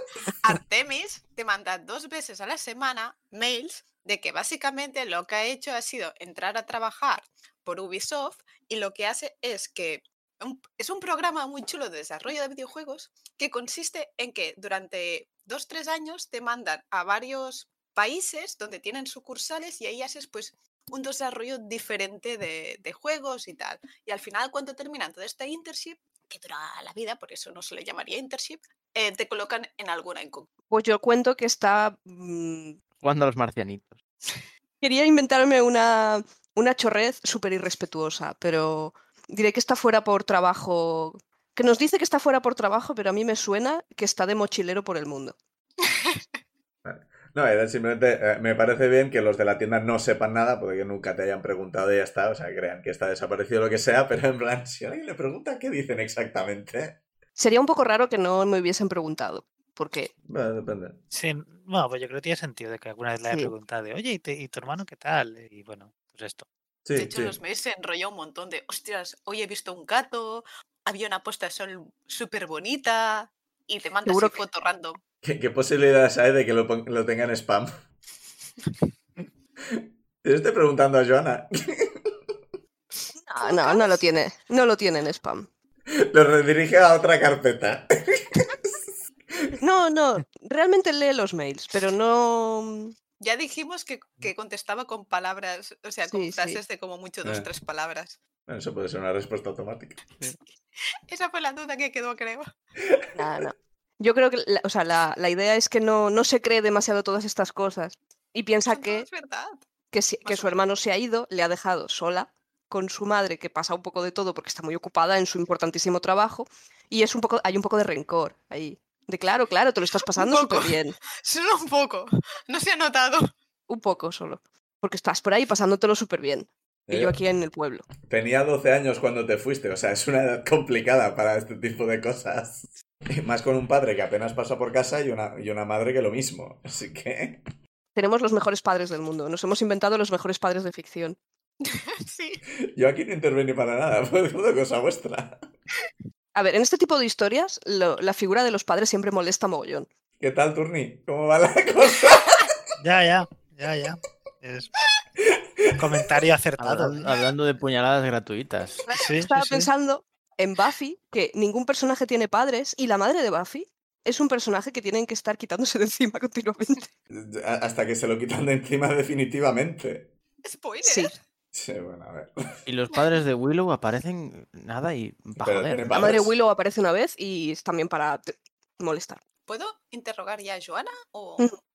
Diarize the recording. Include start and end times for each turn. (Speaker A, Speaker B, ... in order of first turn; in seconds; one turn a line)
Speaker A: 0.4-30.5
Speaker B: 30.7-32.8
Speaker C: 33.0-34.0
Speaker B: 34.8-45.4
Speaker A: 45.8-46.2
Speaker D: 46.9-57.0
Speaker B: 57.4-60.1
Speaker D: 60.3-61.0
Speaker E: 61.1-66.5
Speaker D: 66.8-67.4
Speaker A: 66.9-75.0
Speaker B: 74.0-74.4
Speaker D: 75.2-77.7
Speaker D: 79.7-82.1
Speaker B: 83.2-85.5
Speaker A: 83.4-84.0
Speaker D: 86.1-88.8
Speaker B: 89.6-93.0
Speaker A: 93.2-98.2
Speaker B: 96.1-96.6
Speaker D: 97.2-97.5
Speaker D: 98.5-100.0
Speaker A: 101.1-102.5
Speaker B: 103.2-109.1
Speaker A: 108.7-109.6
Speaker B: 109.9-121.0
Speaker A: 110.2-110.6
Speaker A: 120.0-123.3
Speaker B: 123.7-127.8
Speaker D: 126.9-127.2
Speaker D: 128.1-137.4
Speaker B: 138.0-141.2
Speaker A: 141.6-142.4
Speaker D: 142.8-145.5
Speaker B: 146.3-149.9
Speaker D: 150.2-152.6
Speaker E: 152.8-154.7
Speaker D: 155.2-156.1
Speaker E: 155.8-157.1
Speaker C: 156.6-158.9
Speaker B: 158.9-166.8
Speaker E: 159.0-159.7
Speaker D: 167.1-170.1
Speaker A: 170.4-171.2
Speaker B: 170.8-171.1
Speaker D: 171.5-172.3
Speaker C: 172.7-176.0
Speaker D: 175.4-176.3
Speaker B: 175.9-179.2
Speaker A: 179.5-181.6